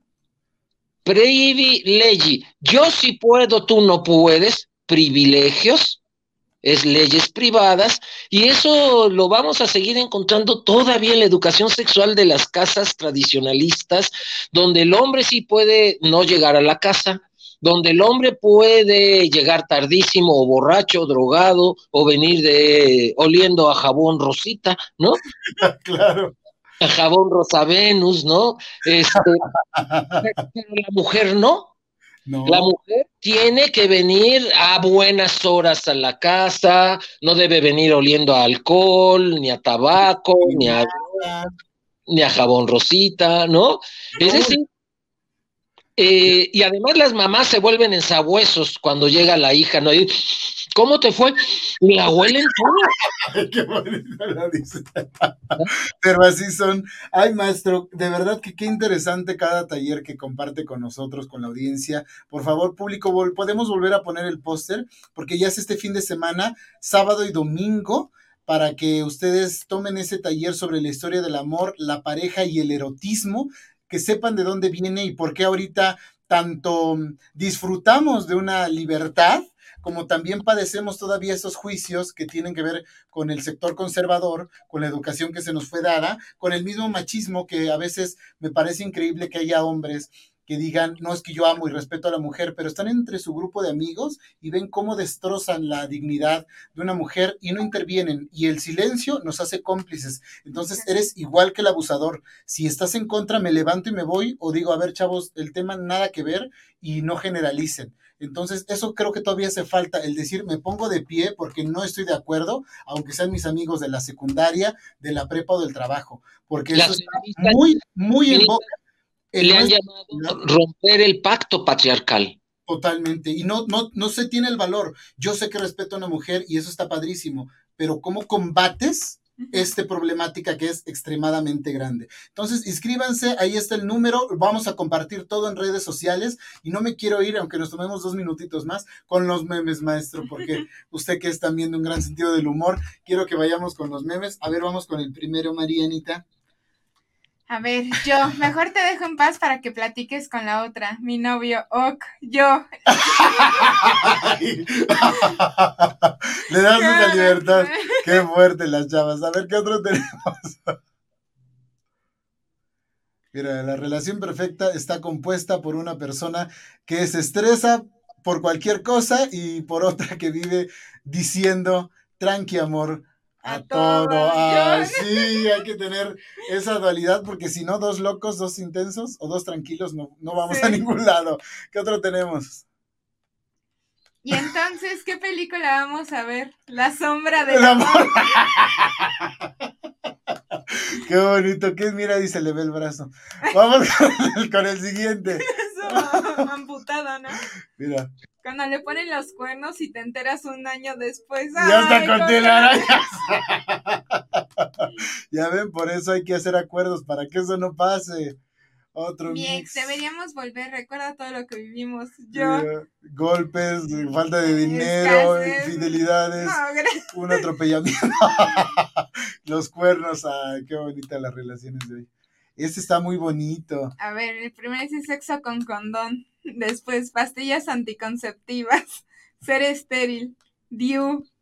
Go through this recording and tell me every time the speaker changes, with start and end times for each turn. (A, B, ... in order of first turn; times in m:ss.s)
0:01.0-0:06.0 A
0:06.6-0:25.2 A
0:25.5-0:26.3 B
0:26.8-0:29.4 A
0:29.1-0:30.2 B
0:30.2-0:31.7 A
0:32.2-0:32.7 B
0:32.4-0:41.2 A
0:40.4-0:41.5 B
0:42.1-0:44.6 A
0:44.2-0:44.6 B
0:46.0-0:52.9 A
0:53.0-0:55.5 B
0:56.0-1:58.7 B
1:56.7-1:57.7 A
1:58.3-1:58.6 A
1:59.3-2:00.4 B
1:59.4-2:02.4 A
2:02.7-2:26.2 B
2:27.5-2:33.7 C
2:33.0-2:40.7 B
2:36.8-2:38.2 C
2:43.3-3:02.6 B
2:53.4-2:55.5 C
3:00.4-3:00.8 C
3:04.2-3:08.5 C
3:07.5-3:09.4 B
3:10.7-3:16.4 B
3:15.4-3:17.4 C
3:17.8-3:18.1 B
3:18.4-3:22.9 C
3:21.5-3:28.4 B
3:28.9-3:30.0 B
3:29.2-3:32.7 C
3:32.3-3:36.6 B
3:34.5-3:37.4 C
3:37.1-3:43.9 B
3:38.3-3:38.7 C
3:44.0-3:51.2 C